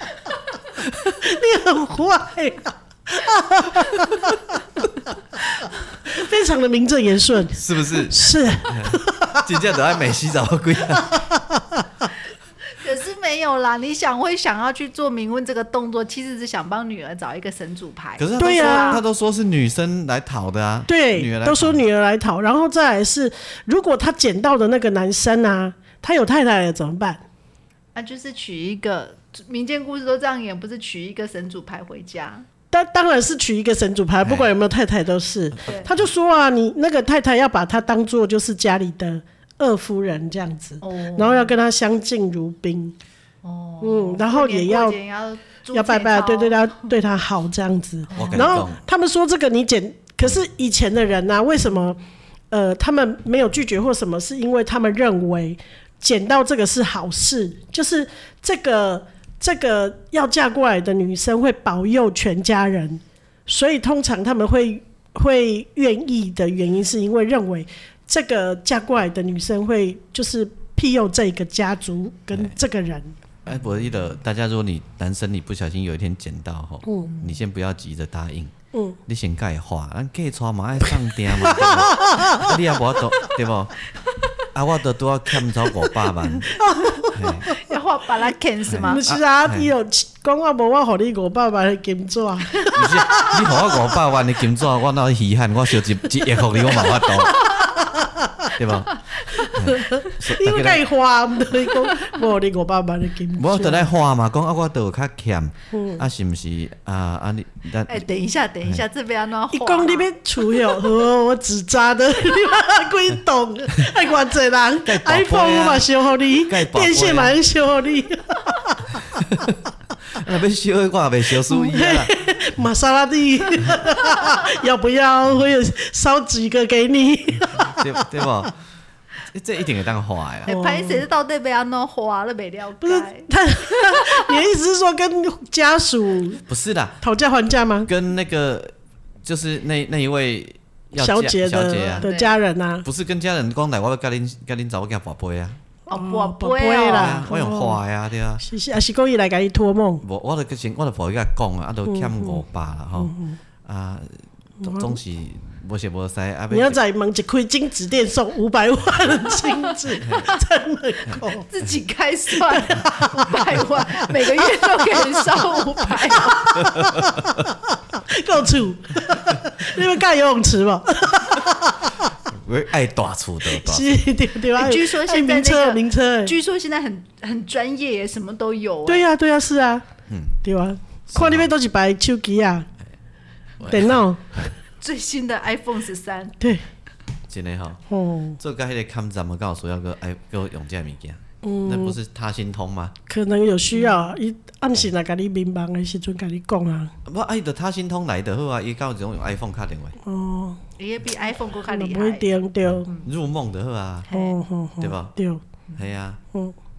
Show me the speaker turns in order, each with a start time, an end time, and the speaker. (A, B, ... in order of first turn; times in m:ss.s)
0:01.1-0:04.9 A
0:06.1-0:09.5 A
0:07.6-0:11.2 B
0:11.0-0:11.9 A
0:12.7-0:19.0 C
0:18.2-0:21.8 B
0:18.4-0:19.0 A
0:20.9-0:27.2 A
0:28.0-0:32.5 C
0:32.7-0:43.0 A
0:34.2-0:34.5 B
0:40.8-0:41.5 C
0:43.4-0:46.9 C
0:43.8-0:45.0 A
0:45.7-0:52.0 A
0:48.1-0:48.6 C
0:48.1-0:48.8 B
0:52.5-1:13.2 A
1:13.4-1:18.5 B
1:16.8-1:17.1 A
1:18.7-1:19.0 A
1:19.1-1:23.8 B
1:21.6-1:22.4 A
1:24.5-1:27.5 B
1:26.6-1:27.7 A
1:27.5-1:29.0 C
1:28.7-1:29.7 B
1:28.8-1:33.7 A
1:32.7-1:37.6 B
1:37.0-1:37.8 C
1:37.8-1:38.5 A
1:38.6-1:39.0 B
1:39.3-1:39.5 C
1:39.5-1:43.9 A
1:39.5-1:40.8 B
1:43.4-1:48.1 B
1:45.7-1:46.0 A
1:47.9-1:50.9 C
1:49.5-1:58.8 A
1:54.8-1:57.4 B
1:59.2-1:59.6 B
2:00.1-2:02.1 B
2:01.5-2:08.1 A
2:07.6-2:08.5 B
2:09.3-2:10.5 B
2:10.5-2:11.0 A
2:10.5-2:14.3 C
2:12.8-2:16.4 A
2:16.5-2:17.0 B
2:17.0-2:17.9 A
2:17.9-2:22.1 B
2:21.0-2:22.9 A
2:21.9-2:22.3 C
2:22.8-2:25.6 B
2:25.9-2:27.8 A
2:25.9-2:27.2 C
2:26.9-2:28.4 B
2:28.4-2:30.0 A
2:30.0-2:33.1 B
2:31.9-2:32.4 A
2:33.0-2:33.4 A
2:33.6-2:36.8 B
2:34.6-2:35.0 A
2:36.5-2:41.5 A
2:40.0-2:40.3 B
2:41.5-2:46.6 C
2:42.4-2:43.4 A
2:46.1-2:52.1 A
2:52.3-2:53.9 B
2:53.5-2:56.4 A
2:54.6-2:59.1 C
2:58.9-2:59.8 A
3:00.1-3:00.4 B
3:00.4-3:02.7 A
3:01.1-3:01.5 B
3:03.6-3:04.0 B
3:03.7-3:04.4 A
3:04.8-3:06.4 C
3:07.3-3:07.8 B
3:07.9-3:08.4 A
3:08.4-3:12.9 B
3:11.4-3:12.0 A
3:13.1-3:16.9 A
3:13.8-3:14.1 C
3:17.0-3:20.0 B
3:20.0-3:20.6 A
3:20.8-3:22.3 C
3:21.7-3:22.9 A
3:22.9-3:24.1 B
3:24.1-3:24.4 C
3:24.1-3:25.4 A
3:24.8-3:25.1 B
3:25.8-3:26.2 B